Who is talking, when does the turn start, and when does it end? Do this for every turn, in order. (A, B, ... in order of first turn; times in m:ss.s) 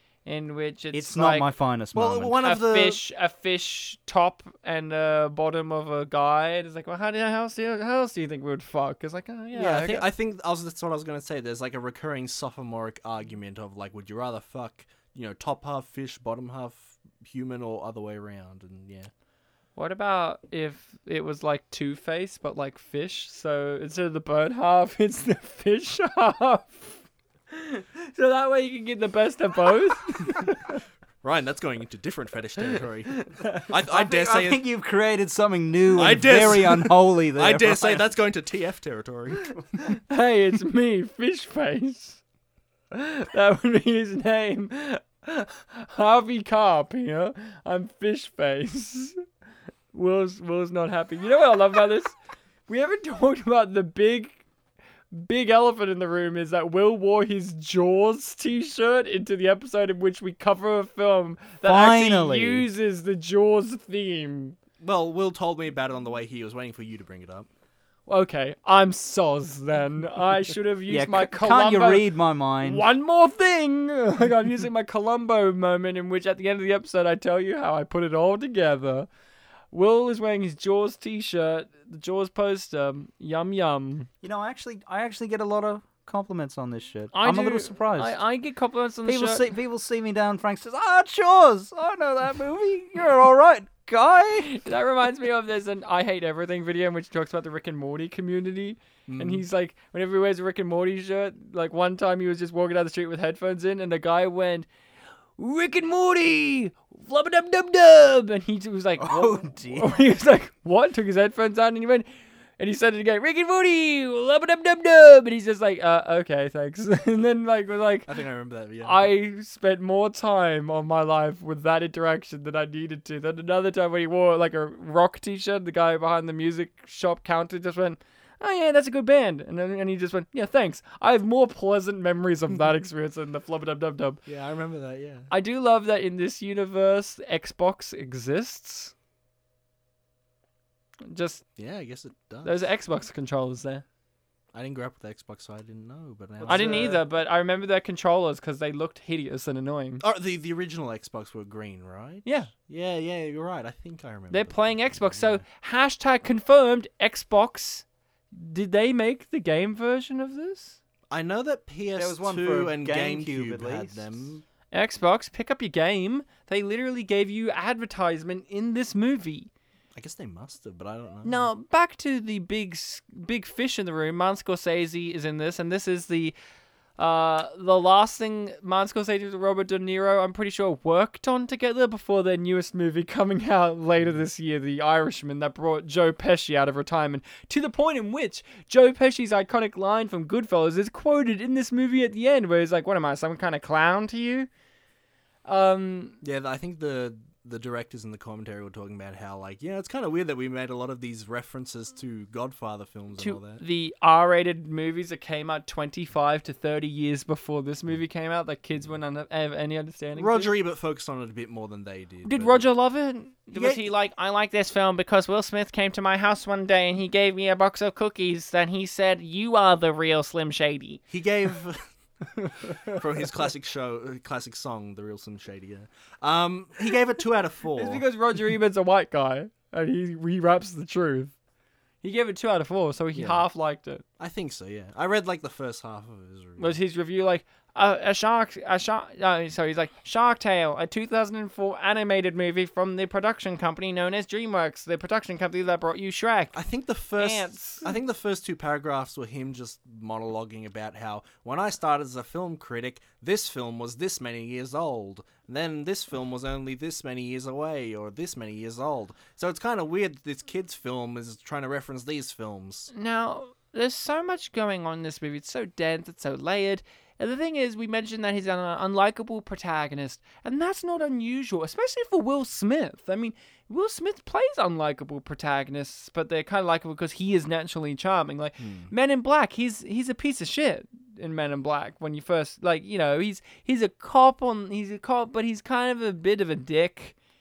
0:00.2-0:01.5 A
0:00.9-0:02.4 B
0:02.0-0:03.0 C
0:02.4-0:10.1 A
0:09.6-0:19.1 C
0:19.8-0:30.7 A
0:31.2-0:34.6 C
0:33.1-0:33.7 A
0:33.8-0:38.1 B
0:35.9-0:39.5 C
0:39.8-0:42.2 A
0:42.9-0:49.2 A
0:49.9-0:52.2 A
0:52.7-0:54.4 A
0:55.1-1:04.6 A
1:01.6-1:02.7 B
1:04.8-1:07.5 C
1:08.1-1:12.1 A
1:10.9-1:12.8 B
1:12.6-1:19.1 A
1:19.7-1:24.1 A
1:24.2-1:28.2 B
1:27.1-1:29.5 A
1:29.0-1:34.6 B
1:34.4-1:44.7 A
1:39.1-1:39.4 C
1:45.4-1:52.1 A
1:49.0-1:50.0 B
1:52.6-1:58.1 A
1:58.1-1:59.1 C
1:58.8-2:14.2 A
2:14.3-2:15.3 C
2:15.3-2:18.9 A
2:21.1-2:21.4 A
2:21.6-2:22.7 C
2:22.4-2:23.8 A
2:24.5-2:27.0 C
2:26.4-2:27.0 B
2:26.5-2:30.0 A
2:30.0-2:35.4 C
2:32.2-2:32.5 A
2:34.3-2:40.8 A
2:41.1-2:44.4 C
2:42.0-2:44.4 B
2:44.7-2:49.5 A
2:50.0-2:51.5 C
2:51.2-2:56.4 A
2:57.0-3:14.5 A
3:15.5-3:16.2 A
3:16.2-3:23.6 C
3:23.2-3:30.5 A
3:30.2-3:32.6 C
3:32.2-3:41.0 A
3:33.5-3:33.9 C
3:41.1-3:41.8 C
3:42.8-3:48.0 C
3:47.8-3:51.3 A
3:52.0-3:54.0 A
3:53.2-3:53.4 C
3:54.2-3:56.8 C
3:56.6-4:06.6 A
4:06.5-4:22.9 C
4:07.2-4:08.0 A
4:22.9-4:47.2 A
4:38.6-4:38.9 C